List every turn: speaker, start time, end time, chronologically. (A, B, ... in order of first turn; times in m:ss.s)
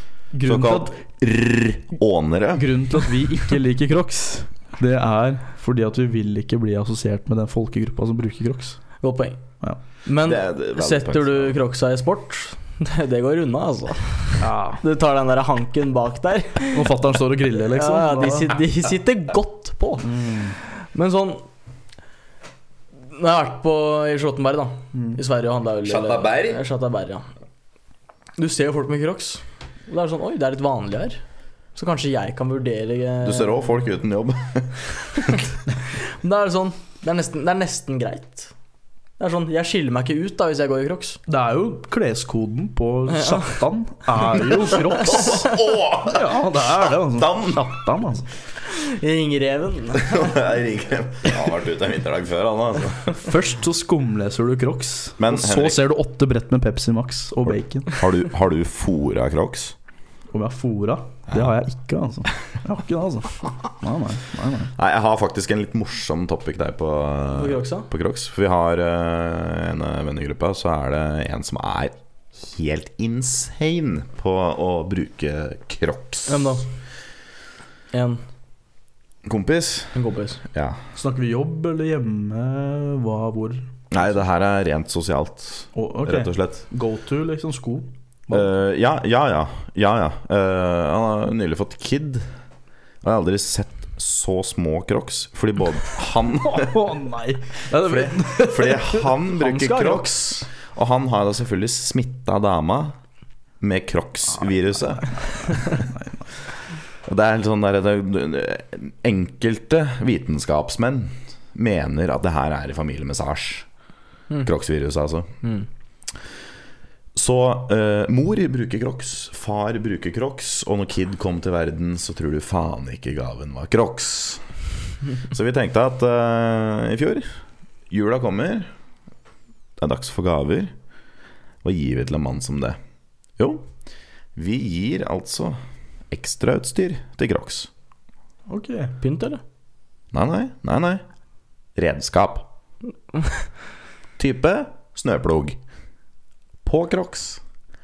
0:00.3-0:01.0 A
0:00.4-0:02.7 B
0:02.6-0:08.8 A
0:09.0-0:09.4 C
0:10.0-0:16.9 C
0:10.2-0:11.6 B
0:14.4-0:14.8 A
0:16.7-0:18.6 A
0:17.7-0:20.2 C
0:20.0-0:20.6 A
0:20.8-0:21.4 C
0:23.1-0:27.3 C
0:24.9-0:25.2 A
0:25.8-0:26.6 B
0:28.4-0:31.2 C
0:31.8-0:33.7 C
0:33.2-0:35.4 B
0:35.9-0:38.5 C
0:39.2-0:41.2 C
0:41.3-0:45.2 A
0:44.6-0:45.5 C
0:44.9-0:47.6 B
0:46.1-0:48.3 A
0:48.7-0:50.4 C
0:50.0-0:53.1 B
0:53.2-0:58.0 A
0:55.2-0:55.8 B
0:57.9-0:59.8 B
1:00.3-1:04.7 A
1:04.8-1:16.4 B
1:07.3-1:07.9 C
1:16.3-1:16.7 C
1:17.9-1:18.2 C
1:19.2-1:20.0 B
1:20.0-1:20.4 C
1:20.5-1:20.8 B
1:20.9-1:23.7 A
1:23.9-1:26.6 B
1:25.8-1:28.5 A
1:28.3-1:32.2 B
1:33.0-1:36.9 B
1:36.4-1:39.0 A
1:37.8-1:43.0 B
1:39.3-1:40.3 C
1:43.6-1:45.9 B
1:45.8-1:46.2 A
1:47.0-1:53.7 B
1:54.4-1:55.3 B
1:57.2-2:04.4 B
2:05.2-2:07.3 B
2:07.9-2:08.7 B
2:09.8-2:10.7 B
2:11.6-2:12.8 B
2:13.4-2:13.7 B
2:14.4-2:15.6 B
2:16.1-2:17.7 B
2:18.5-2:19.0 A
2:19.0-2:19.4 C
2:20.1-2:21.0 B
2:21.8-2:22.5 B
2:24.2-2:25.6 B
2:26.6-2:27.4 B